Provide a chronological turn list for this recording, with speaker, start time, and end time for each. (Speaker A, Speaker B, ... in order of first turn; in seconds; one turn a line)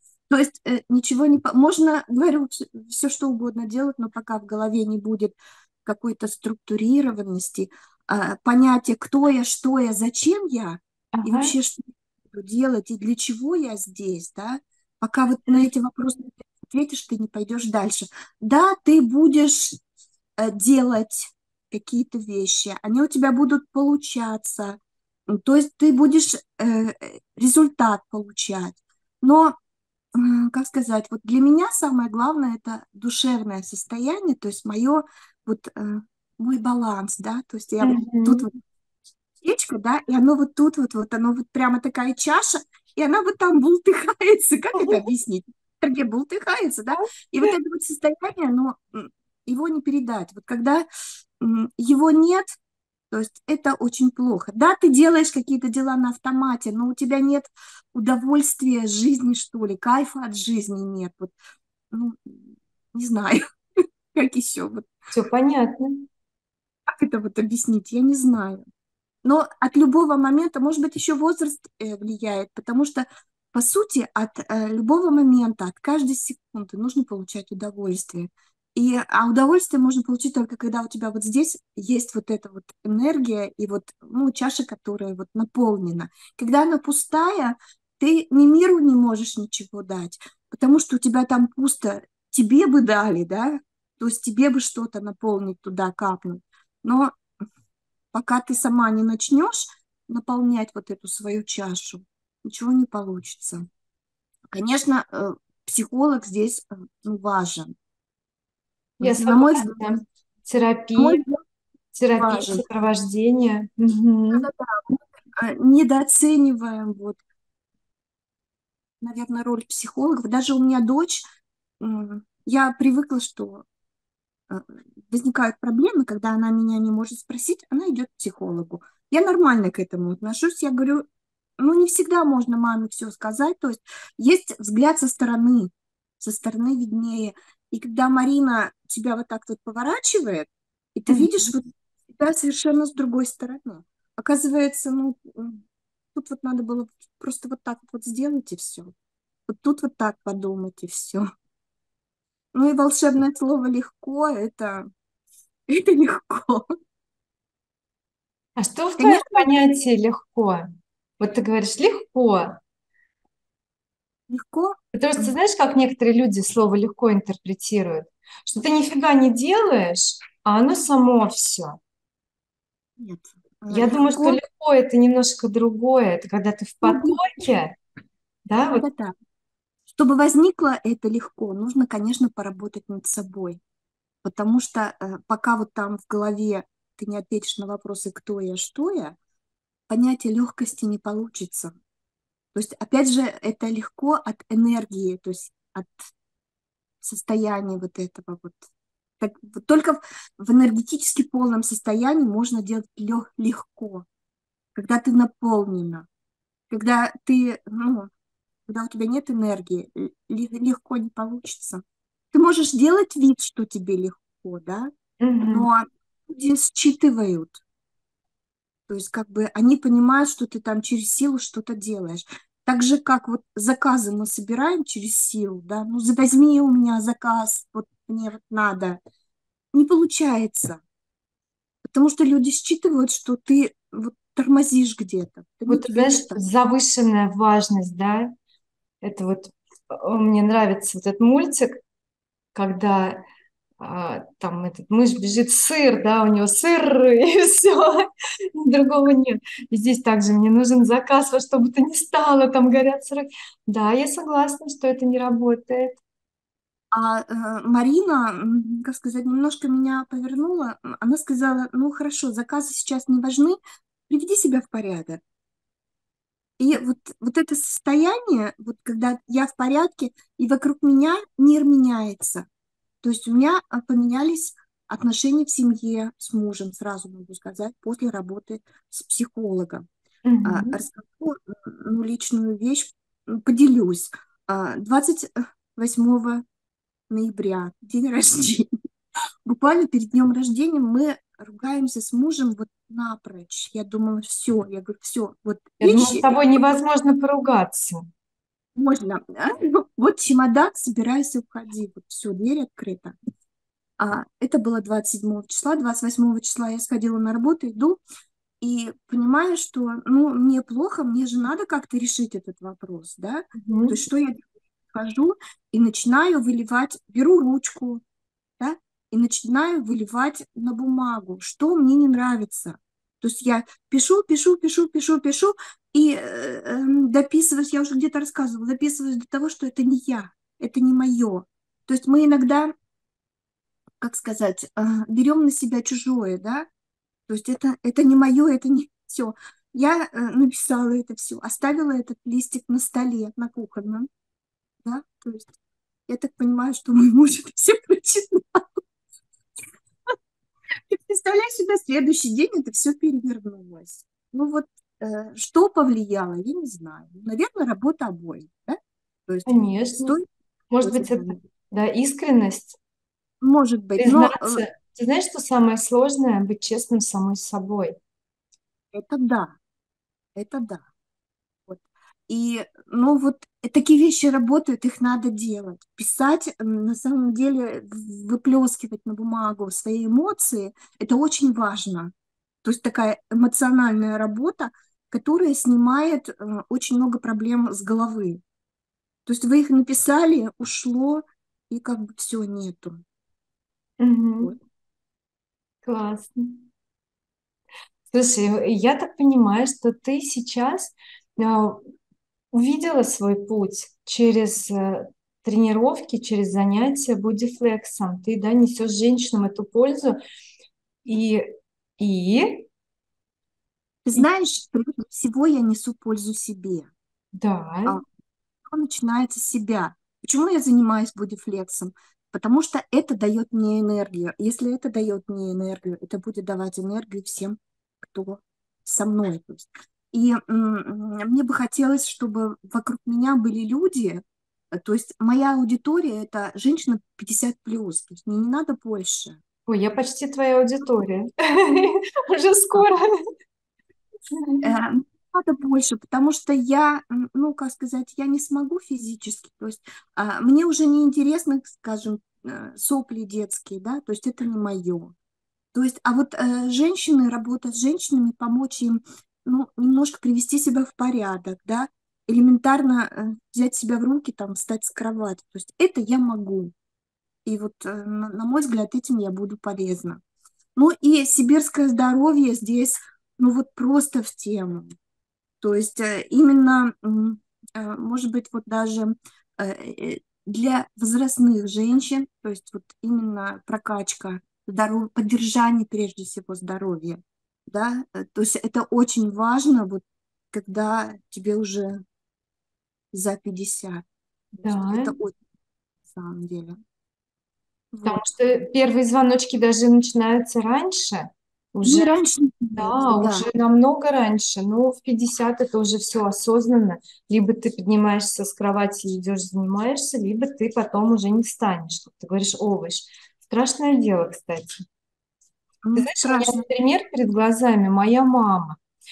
Speaker A: 0.3-19.8
Speaker B: 11.1-11.6
Speaker A: 20.4-29.6
Speaker A: 30.1-38.5
Speaker B: 37.8-38.5
Speaker A: 39.4-50.9
Speaker B: 44.8-45.0
Speaker A: 51.4-52.5
Speaker A: 53.1-61.3
Speaker A: 61.9-63.4
Speaker A: 64.1-64.9
Speaker B: 65.1-66.1
Speaker A: 66.9-68.6
Speaker A: 69.2-97.2
Speaker A: 98.1-103.7
Speaker A: 104.5-107.8
Speaker B: 109.0-111.2
Speaker A: 109.0-109.9
Speaker A: 111.0-111.4
Speaker B: 111.9-114.5
Speaker A: 112.2-112.6
Speaker A: 114.3-117.2
Speaker A: 119.0-121.2
Speaker A: 121.8-123.7
Speaker A: 124.5-131.1
Speaker A: 131.6-145.6
Speaker B: 141.1-141.5
Speaker A: 146.2-148.9
Speaker A: 149.5-151.2
Speaker A: 152.6-154.9
Speaker A: 155.7-156.7
Speaker B: 158.6-160.7
Speaker A: 159.0-159.5
Speaker B: 161.2-162.6
Speaker A: 164.3-165.3
Speaker B: 164.9-171.8
Speaker A: 173.0-174.4
Speaker B: 173.7-177.8
Speaker A: 176.8-177.2
Speaker B: 178.5-178.9
Speaker A: 178.7-179.1
Speaker A: 179.9-183.6
Speaker A: 184.2-189.2
Speaker A: 189.9-191.7
Speaker A: 192.5-195.9
Speaker A: 197.0-198.7
Speaker A: 199.2-204.1
Speaker A: 204.8-206.1
Speaker A: 206.7-208.1
Speaker A: 208.7-214.9
Speaker B: 215.2-215.7
Speaker A: 215.4-217.6
Speaker A: 218.9-229.0
Speaker A: 229.7-230.8
Speaker A: 231.9-236.4
Speaker B: 235.7-238.3
Speaker B: 239.0-241.8
Speaker B: 242.5-243.2
Speaker B: 243.8-256.0
Speaker A: 256.9-265.2
Speaker A: 266.6-272.5
Speaker A: 273.0-279.9
Speaker B: 280.2-280.8
Speaker A: 280.4-286.4
Speaker A: 287.1-288.7
Speaker A: 289.4-296.8
Speaker B: 295.8-298.0
Speaker A: 298.8-303.2
Speaker A: 304.0-308.0
Speaker A: 308.6-318.0
Speaker B: 313.6-314.0
Speaker A: 318.6-332.7
Speaker A: 334.0-336.7
Speaker A: 337.3-344.1
Speaker A: 344.8-345.5
Speaker A: 346.1-348.8
Speaker A: 350.9-358.8
Speaker A: 359.3-360.3
Speaker B: 359.5-360.2
Speaker B: 360.7-362.8
Speaker A: 360.8-361.4
Speaker A: 363.4-364.6
Speaker B: 364.0-368.0
Speaker A: 368.9-369.5
Speaker A: 370.4-370.9
Speaker A: 371.7-382.1
Speaker A: 382.6-388.4
Speaker A: 389.3-393.0
Speaker B: 394.0-394.5
Speaker B: 395.8-396.6
Speaker B: 398.1-401.8
Speaker B: 402.5-410.2
Speaker B: 411.1-411.5
Speaker B: 412.0-412.7
Speaker A: 414.1-416.9
Speaker B: 417.4-418.0
Speaker A: 418.7-439.4
Speaker B: 439.7-443.1
Speaker B: 444.4-444.7
Speaker A: 444.6-455.1
Speaker A: 455.7-466.7
Speaker A: 467.5-470.2
Speaker A: 470.8-474.9
Speaker A: 475.6-492.0
Speaker A: 493.1-495.4
Speaker B: 494.6-495.1
Speaker A: 496.1-496.8
Speaker A: 497.9-498.3
Speaker B: 498.1-502.1
Speaker A: 501.9-503.5
Speaker B: 502.8-514.8
Speaker A: 515.9-516.6
Speaker B: 516.0-518.8